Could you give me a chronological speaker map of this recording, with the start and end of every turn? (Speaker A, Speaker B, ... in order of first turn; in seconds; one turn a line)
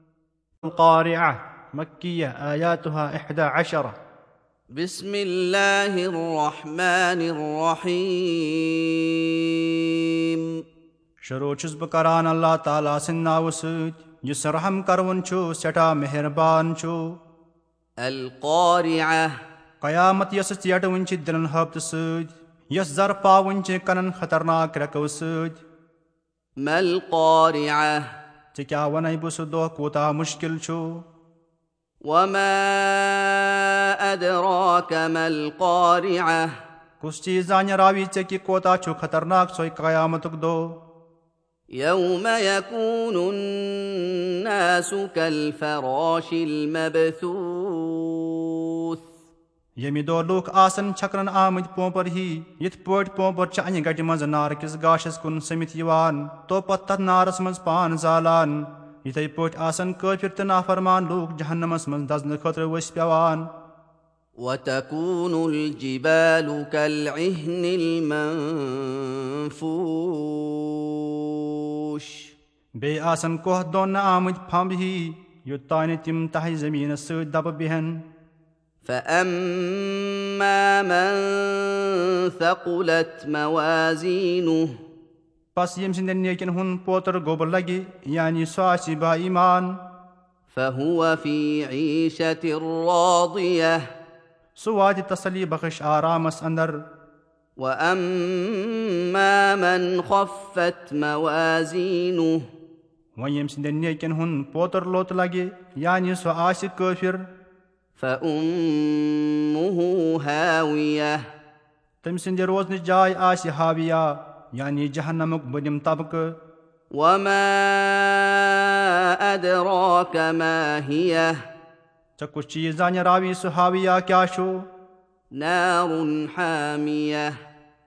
Speaker A: 0.6-3.9
Speaker B: 4.8-10.5
Speaker A: 11.2-17.1
Speaker B: 18.0-19.3
Speaker A: 19.8-25.6
Speaker B: 26.6-28.0
Speaker A: 28.5-30.9
Speaker B: 32.1-36.5
Speaker A: 37.0-40.6
Speaker B: 41.8-49.0
Speaker A: 49.8-63.5
Speaker B: 64.4-72.3
Speaker A: 72.8-78.0
Speaker B: 78.8-84.7
Speaker A: 85.5-89.8
Speaker B: 90.5-93.8
Speaker A: 94.6-96.7
Speaker B: 97.6-102.4
Speaker A: 103.2-107.2
Speaker B: 108.0-111.2
Speaker A: 112.0-116.2
Speaker B: 116.9-121.4
Speaker A: 122.2-124.5
Speaker B: 125.3-127.3